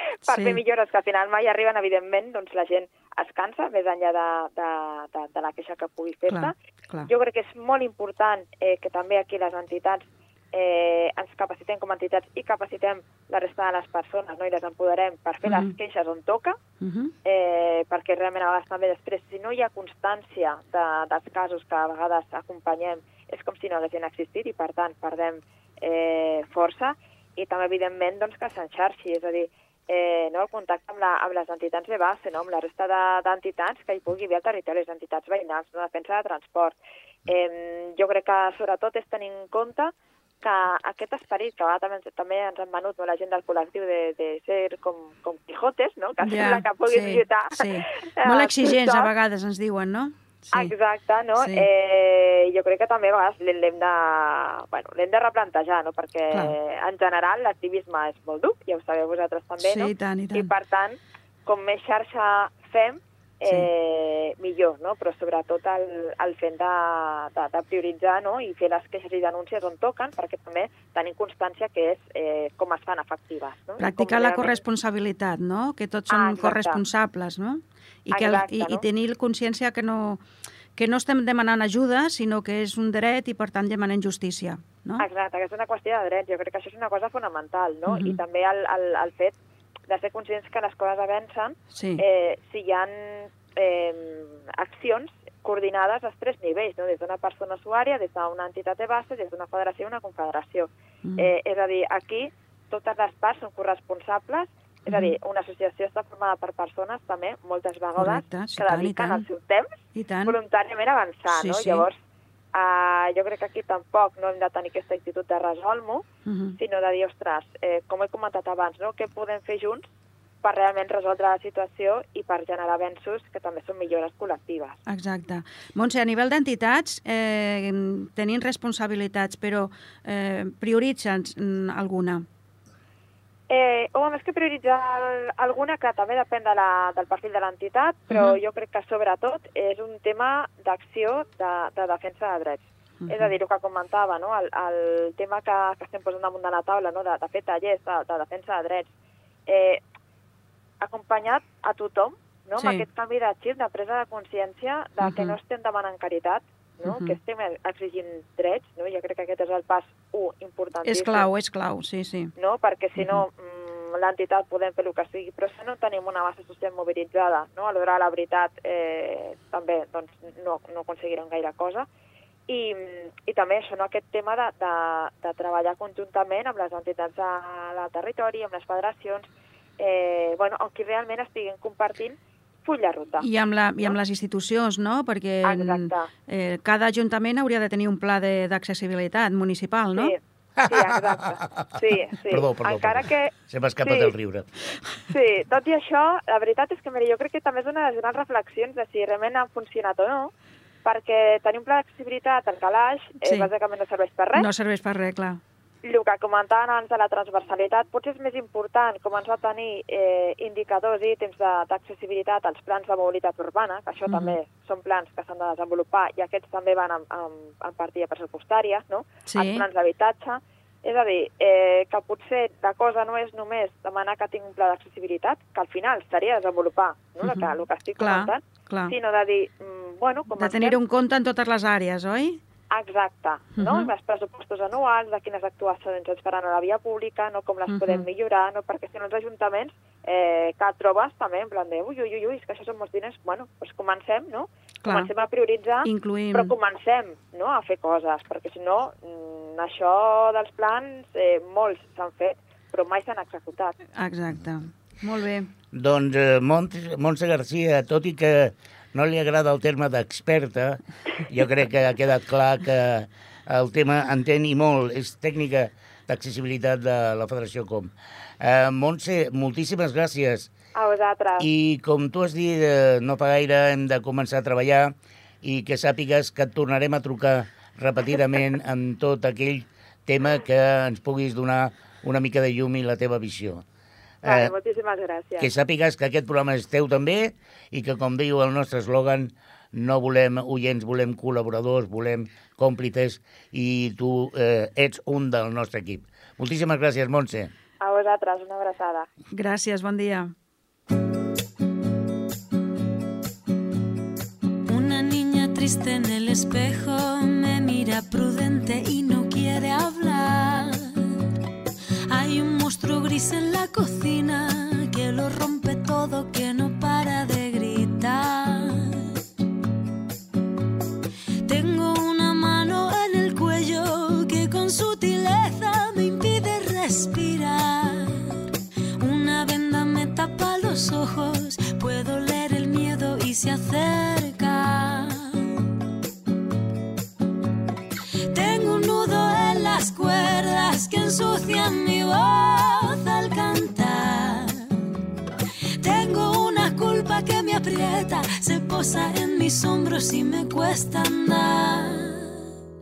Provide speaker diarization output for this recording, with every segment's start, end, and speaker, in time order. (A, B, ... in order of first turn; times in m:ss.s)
0:00.3-0:06.5 A
0:00.3-0:00.6 B
0:06.3-0:07.1 B
0:07.1-0:16.6 A
0:15.4-0:15.7 B
0:16.8-0:17.1 B
0:17.2-0:36.8 A
0:37.3-0:49.1 A
0:46.2-0:50.7 B
0:50.5-1:14.6 A
0:51.4-0:51.7 B
0:59.6-1:00.5 B
1:13.8-1:20.2 B
1:16.1-1:16.8 A
1:18.1-1:18.8 A
1:20.8-1:25.0 B
1:25.0-1:29.4 A
1:27.9-1:28.2 B
1:29.9-1:52.0 A
1:31.7-1:32.0 B
1:41.0-1:41.3 B
1:44.9-1:45.1 B
1:48.0-1:49.2 B
1:50.0-1:50.4 B
1:51.3-1:51.9 B
1:52.5-1:56.0 A
1:56.3-1:56.6 B
1:56.6-1:59.8 A
2:00.4-2:04.8 A
2:04.9-2:12.2 B
2:13.5-2:28.9 A
2:18.1-2:18.4 B
2:23.0-2:23.3 B
2:29.5-2:29.8 A
2:30.8-2:41.3 A
2:32.6-2:32.8 B
2:35.0-2:35.4 B
2:36.8-2:37.2 B
2:40.9-2:42.3 B
2:42.4-2:51.9 A
2:43.0-2:43.3 B
2:52.5-2:59.2 A
2:59.8-3:03.3 A
3:03.2-3:10.1 B
3:05.4-3:06.1 A
3:10.0-3:13.3 A
3:10.6-3:11.7 C
3:12.3-3:14.5 C
3:13.8-3:14.1 A
3:15.1-3:20.3 A
3:20.8-3:24.5 A
3:23.2-3:23.5 B
3:24.4-3:25.4 B
3:25.8-3:50.8 A
3:34.1-3:34.4 B
3:39.3-3:39.7 B
3:47.2-3:49.0 B
3:50.4-3:52.4 B
3:52.7-4:13.8 A
3:53.6-3:53.9 B
3:57.7-3:58.1 B
4:04.8-4:05.1 B
4:05.8-4:06.6 B
4:14.0-4:15.5 B
4:15.7-4:30.5 C
4:30.8-4:31.5 A
4:31.4-4:43.6 C
4:44.2-4:44.5 C
4:44.2-4:45.5 A
4:45.4-4:57.5 C
4:57.8-4:59.1 A
4:59.3-5:00.3 B
5:04.7-5:10.9 D
5:12.1-5:19.1 D
5:21.4-5:28.4 D
5:29.0-5:35.5 D
5:38.3-5:44.7 D
5:45.8-5:52.3 D